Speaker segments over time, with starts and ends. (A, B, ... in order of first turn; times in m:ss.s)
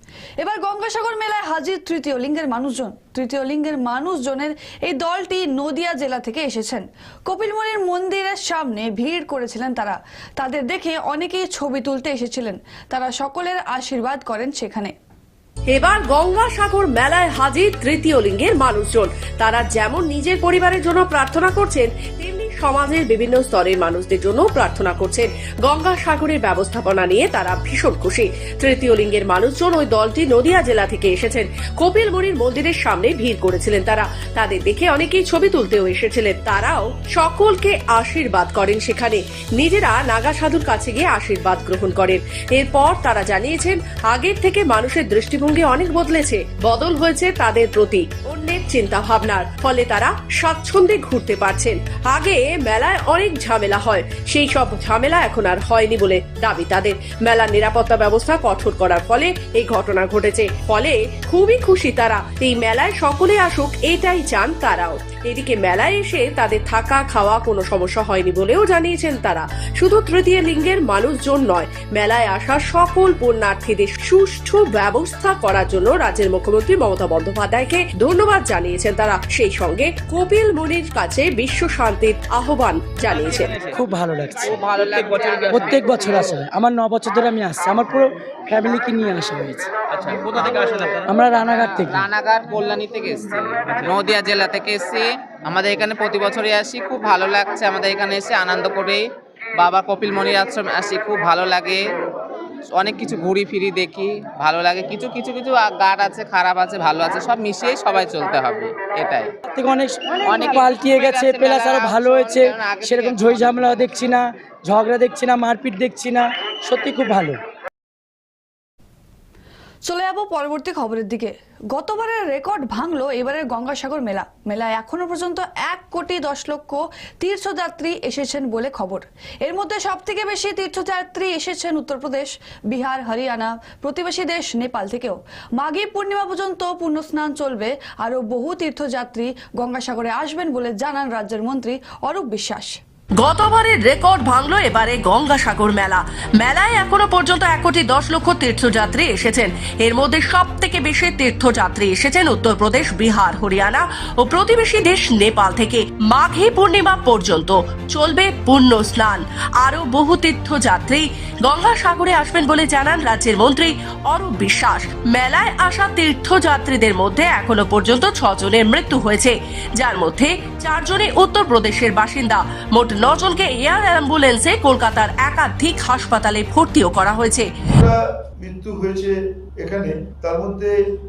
0:00.4-0:14.9 A
0:15.7-1:23.7 B
1:23.7-1:24.6 C
1:24.4-1:26.4 D
1:25.5-1:29.7 C
1:29.9-1:39.1 D
1:31.0-1:32.1 C
1:39.6-1:41.9 D
1:42.7-1:49.3 D
1:49.5-1:57.4 C
1:50.2-1:53.6 D
1:59.9-2:22.8 A
2:23.2-2:57.5 B
2:57.8-3:00.8 E